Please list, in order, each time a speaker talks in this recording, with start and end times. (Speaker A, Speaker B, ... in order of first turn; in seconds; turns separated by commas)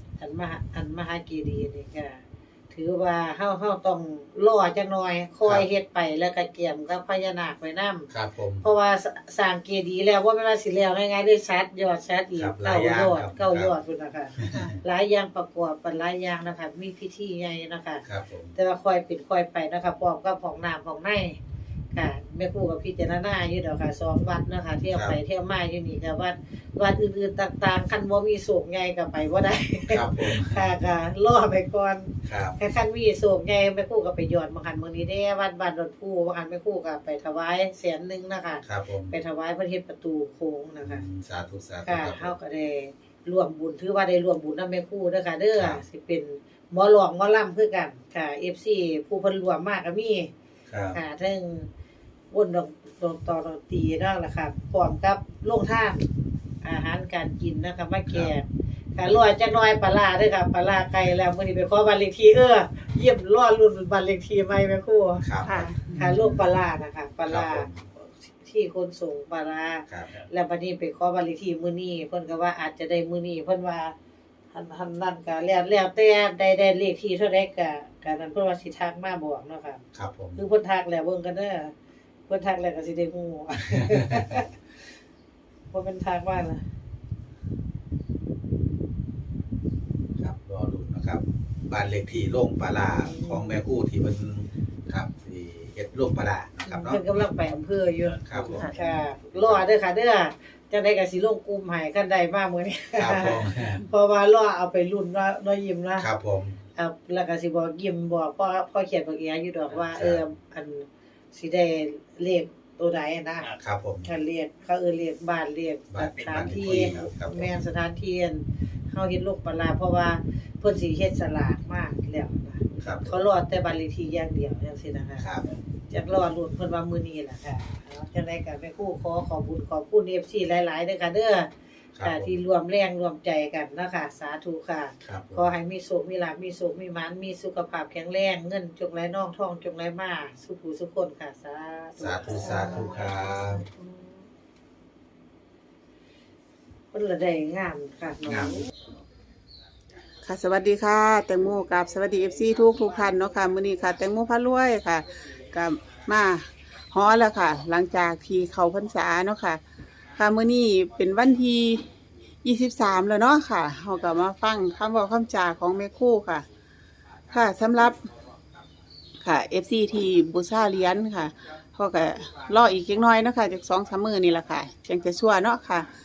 Speaker A: 0.2-8.1, Speaker B: 8.1-8.7, Speaker A: 8.6-18.0, Speaker B: 12.3-13.7, Speaker B: 14.4-14.7, Speaker B: 18.1-18.5, Speaker A: 18.5-21.4, Speaker A: 21.9-41.0, Speaker B: 29.9-30.7, Speaker B: 32.2-32.6, Speaker B: 38.6-39.2, Speaker B: 40.8-42.3, Speaker A: 41.8-50.3, Speaker B: 45.5-45.8, Speaker B: 50.7-51.0, Speaker A: 50.9-51.7, Speaker A: 52.3-56.0, Speaker A: 56.6-73.9, Speaker B: 58.1-58.3, Speaker B: 65.2-65.7, Speaker C: 65.4-66.1, Speaker B: 67.2-67.8, Speaker A: 74.5-79.8, Speaker B: 79.9-80.4, Speaker A: 80.3-81.7, Speaker A: 82.3-84.6, Speaker B: 84.0-84.4, Speaker A: 85.7-86.7, Speaker B: 90.2-97.0, Speaker A: 92.9-93.6, Speaker A: 96.6-106.1, Speaker B: 98.2-99.7, Speaker B: 103.0-103.8, Speaker B: 106.0-106.6, Speaker A: 106.7-125.3, Speaker B: 109.8-110.2, Speaker B: 113.6-114.1, Speaker B: 115.9-117.5, Speaker B: 122.8-123.2, Speaker B: 125.2-125.5, Speaker A: 125.9-131.5, Speaker B: 131.9-132.3, Speaker A: 132.0-144.2, Speaker B: 135.0-135.5, Speaker B: 142.0-143.6, Speaker C: 142.3-143.1, Speaker A: 146.9-148.7, Speaker B: 148.3-148.6, Speaker C: 150.2-159.6, Speaker C: 160.2-161.9, Speaker C: 162.4-166.4, Speaker C: 167.3-168.1, Speaker C: 169.2-175.9